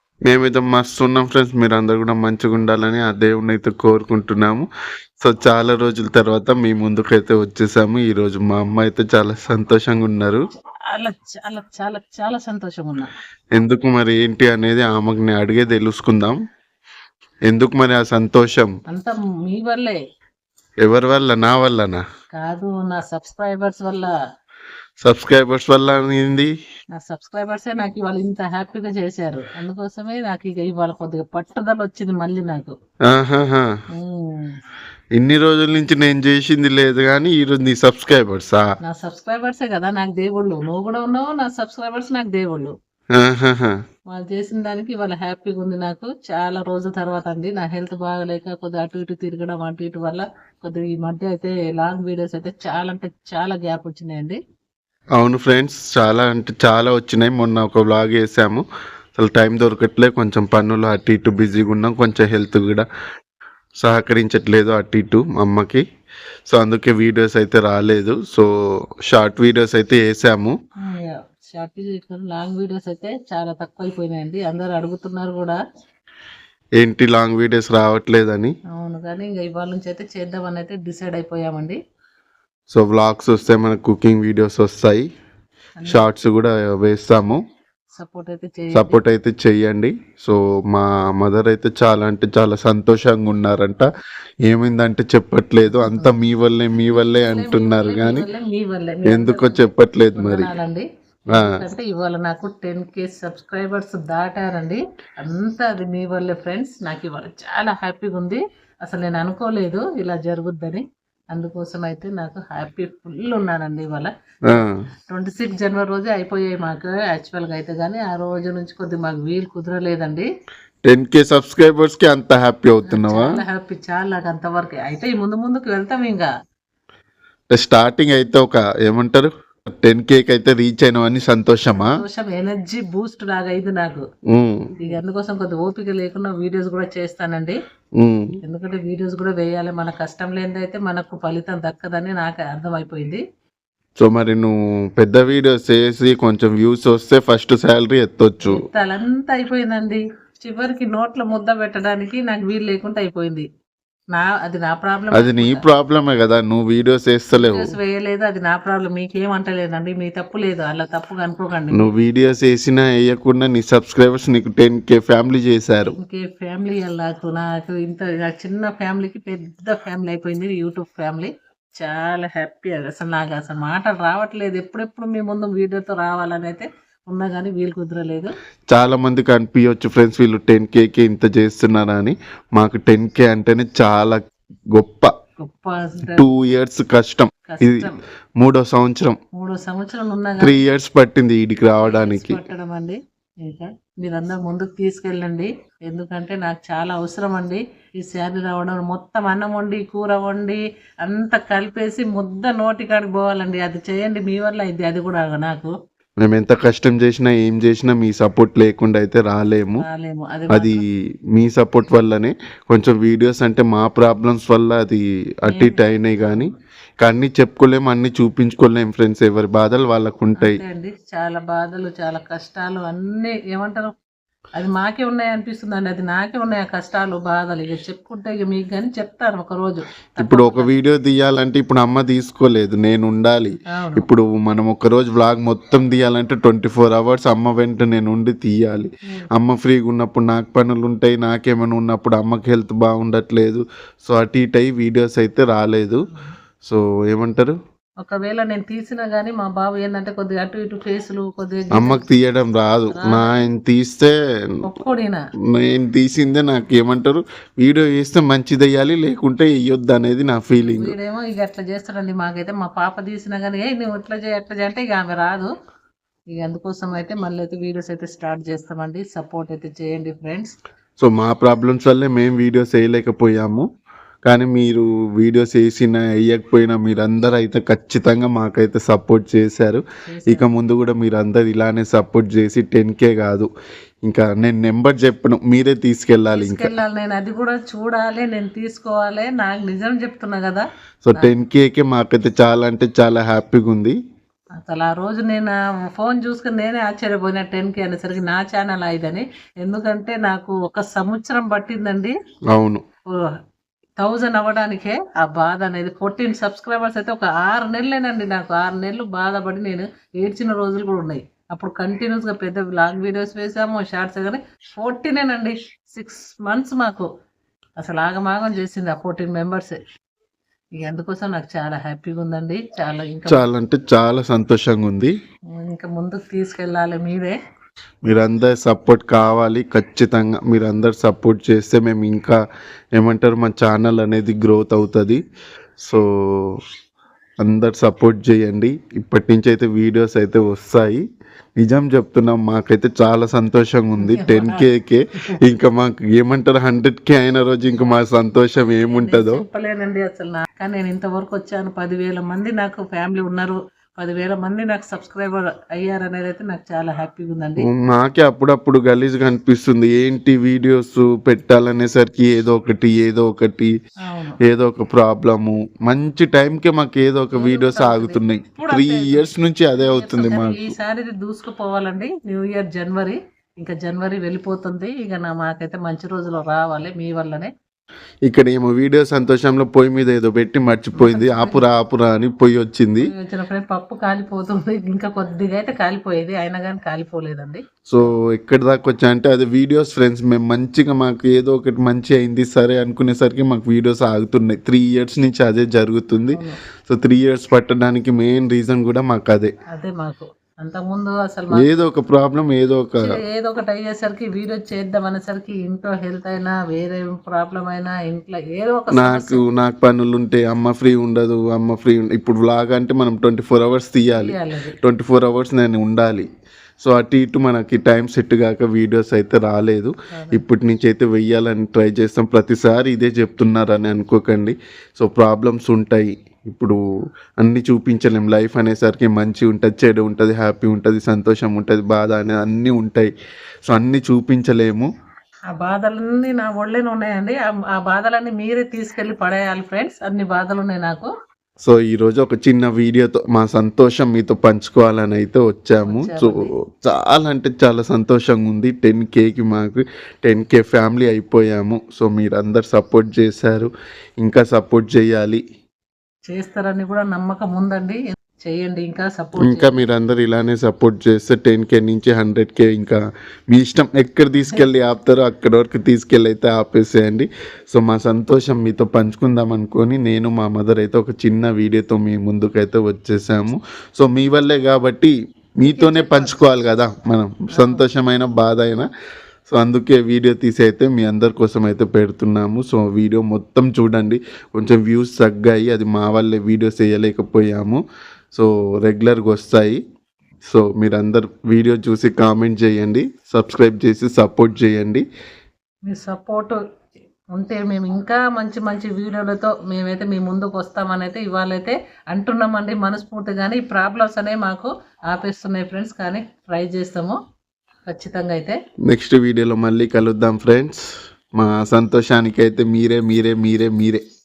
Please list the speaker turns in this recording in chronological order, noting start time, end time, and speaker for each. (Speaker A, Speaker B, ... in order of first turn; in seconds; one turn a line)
Speaker A: 0.3-4.7
Speaker A: 5.2-10.4
Speaker B: 10.9-13.1
Speaker A: 13.6-16.4
Speaker A: 17.5-18.7
Speaker B: 18.9-20.0
Speaker A: 20.8-22.0
Speaker B: 22.3-24.1
Speaker A: 25.0-26.5
Speaker B: 26.9-32.7
Speaker A: 33.1-33.7
Speaker B: 33.9-34.5
Speaker A: 35.2-38.6
Speaker B: 38.8-42.7
Speaker A: 43.1-43.8
Speaker B: 44.1-54.4
Speaker A: 55.2-58.6
Speaker A: 59.2-62.9
Speaker A: 63.8-65.8
Speaker A: 66.5-68.5
Speaker A: 69.1-70.5
Speaker B: 70.8-75.6
Speaker A: 76.8-78.5
Speaker B: 78.7-81.8
Speaker A: 82.7-85.0
Speaker B: 85.8-86.1
Speaker A: 85.9-87.4
Speaker B: 88.0-89.0
Speaker A: 88.7-93.9
Speaker A: 94.5-98.2
Speaker B: 95.7-96.2
Speaker B: 96.9-114.6
Speaker A: 99.0-100.5
Speaker A: 101.3-101.6
Speaker A: 114.5-114.8
Speaker B: 115.1-120.3
Speaker A: 120.8-123.4
Speaker B: 122.9-126.3
Speaker A: 127.5-131.9
Speaker B: 131.7-134.0
Speaker A: 134.3-134.7
Speaker B: 134.8-137.6
Speaker A: 138.0-138.4
Speaker B: 138.4-143.2
Speaker A: 144.0-148.6
Speaker B: 148.4-153.4
Speaker B: 154.1-155.6
Speaker A: 155.1-157.7
Speaker B: 157.3-161.9
Speaker A: 161.7-165.9
Speaker B: 165.9-171.3
Speaker B: 171.8-178.3
Speaker A: 178.7-184.2
Speaker A: 184.7-185.1
Speaker B: 185.4-186.3
Speaker A: 186.1-189.2
Speaker B: 187.5-188.0
Speaker B: 189.3-190.6
Speaker A: 190.4-192.4
Speaker B: 191.8-205.7
Speaker A: 206.2-209.8
Speaker B: 209.8-210.8
Speaker A: 210.5-220.6
Speaker B: 215.5-215.8
Speaker B: 220.4-223.9
Speaker B: 224.6-230.7
Speaker A: 230.2-246.0
Speaker B: 233.7-234.0
Speaker A: 246.6-247.6
Speaker B: 248.0-252.1
Speaker A: 251.7-254.1
Speaker B: 252.9-253.4
Speaker B: 254.6-255.2
Speaker A: 255.5-260.9
Speaker B: 260.6-265.5
Speaker B: 266.3-270.5
Speaker A: 271.0-273.6
Speaker A: 274.2-283.5
Speaker B: 280.1-280.5
Speaker A: 284.1-286.7
Speaker B: 286.3-290.6
Speaker A: 291.0-293.9
Speaker B: 294.6-302.1
Speaker A: 302.5-302.8
Speaker B: 304.0-317.1
Speaker B: 317.8-319.8
Speaker B: 320.8-323.4
Speaker A: 323.3-325.1
Speaker B: 325.6-327.3
Speaker A: 328.1-332.4
Speaker A: 332.9-335.2
Speaker A: 335.8-336.6
Speaker A: 337.4-341.0
Speaker A: 341.6-349.4
Speaker B: 344.0-344.6
Speaker B: 348.9-357.6
Speaker A: 357.6-363.7
Speaker B: 364.0-364.4
Speaker A: 364.4-370.7
Speaker B: 367.3-377.5
Speaker A: 378.3-383.1
Speaker B: 380.9-381.7
Speaker B: 383.1-388.1
Speaker A: 387.9-399.5
Speaker B: 396.3-396.6
Speaker B: 399.7-401.7
Speaker A: 401.5-403.1
Speaker B: 403.0-409.4
Speaker A: 408.9-416.3
Speaker B: 414.1-414.8
Speaker A: 416.8-426.8
Speaker B: 420.1-420.4
Speaker A: 427.4-433.1
Speaker A: 433.7-434.9
Speaker B: 435.5-441.1
Speaker A: 441.6-453.7
Speaker B: 445.8-446.5
Speaker A: 454.2-455.4
Speaker B: 456.3-459.8
Speaker A: 459.4-463.0
Speaker A: 463.5-478.9
Speaker B: 475.7-476.4
Speaker B: 477.6-477.8
Speaker A: 479.5-487.8
Speaker A: 488.3-489.8
Speaker A: 490.4-495.0
Speaker B: 495.9-496.6
Speaker B: 497.3-507.2
Speaker B: 507.9-508.6
Speaker A: 508.9-514.0